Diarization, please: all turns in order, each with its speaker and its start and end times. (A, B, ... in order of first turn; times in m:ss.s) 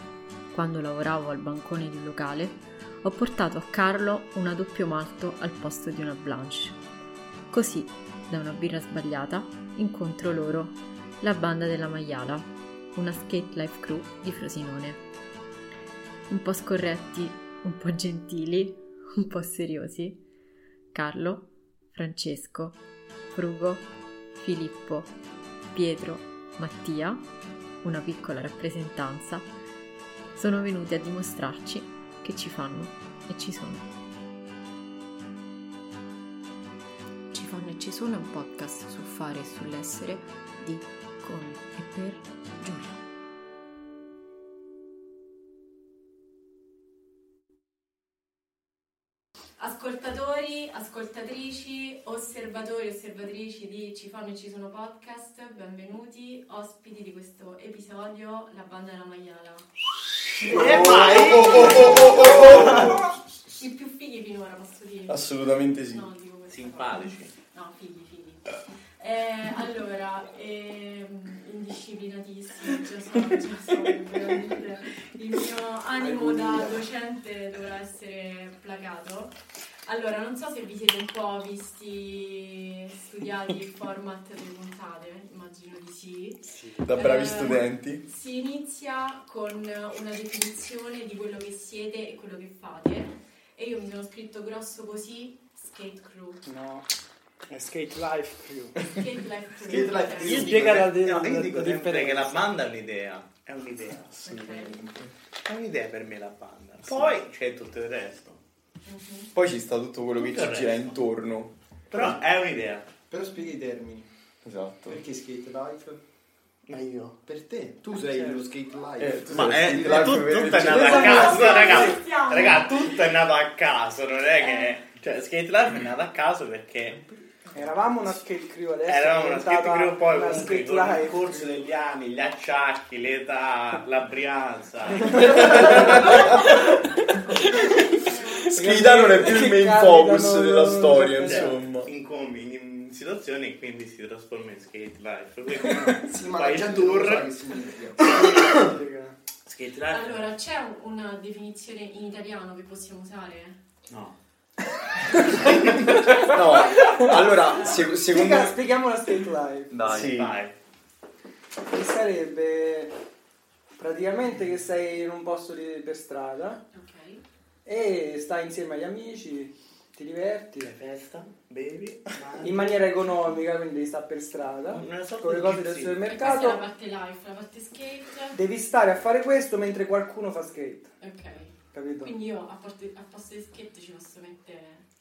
0:00.5-0:06.8 A
0:07.5-0:15.0 A
0:16.3-0:20.2 A
0:20.9-0:22.8 A
0:23.3-0:25.1 A
0:25.7-0:27.3 A
0:27.8-0:29.5 A
0:30.4-0:33.8 A
0:37.3-0:43.0 A
0:49.6-0:59.7 B
1:00.4-1:03.0 C
1:00.4-1:03.1 D
1:03.5-1:36.4 B
1:05.1-1:06.1 D
1:06.5-1:07.3 C
1:16.0-1:16.8 E
1:26.8-1:28.0 D
1:36.4-1:36.9 F
1:37.5-1:39.0 F
1:38.9-1:40.6 B
1:39.6-1:41.0 E
1:40.2-1:42.5 F
1:40.5-1:44.2 C
1:44.2-1:44.8 B
1:44.3-1:45.1 D
1:45.4-1:48.4 C
1:48.9-1:49.3 B
1:49.3-1:52.1 D
1:50.2-1:51.0 C
1:51.9-1:52.9 C
1:53.1-1:54.1 E
1:54.4-1:55.0 D
1:54.9-1:56.0 E
1:56.7-1:57.2 C
1:57.3-2:00.3 E
1:57.9-1:58.4 F
1:59.0-2:01.3 D
1:59.3-2:07.0 C
2:00.6-2:02.0 F
2:00.8-2:02.7 B
2:04.4-2:04.8 B
2:07.5-2:11.4 F
2:08.9-2:16.4 C
2:15.0-2:15.4 F
2:15.3-2:16.6 D
2:17.3-2:17.7 D
2:17.7-2:18.6 B
2:18.5-2:21.6 F
2:18.5-2:21.9 D
2:21.2-2:27.3 C
2:26.0-2:28.3 E
2:28.1-2:29.2 F
2:28.1-2:28.7 C
2:29.4-2:30.2 C
2:29.9-2:33.6 B
2:33.9-2:34.2 C
2:36.1-2:37.9 B
2:36.3-2:38.6 D
2:36.8-2:39.9 F
2:39.8-2:40.4 D
2:39.8-2:40.6 C
2:41.7-2:42.9 F
2:43.8-2:46.6 F
2:46.7-2:47.2 B
2:47.6-2:50.8 F
2:50.7-2:52.8 C
2:52.4-2:56.6 F
2:54.7-2:56.0 C
2:56.1-2:58.4 B
2:58.3-3:00.9 F
3:01.0-3:04.8 B
3:01.7-3:02.2 F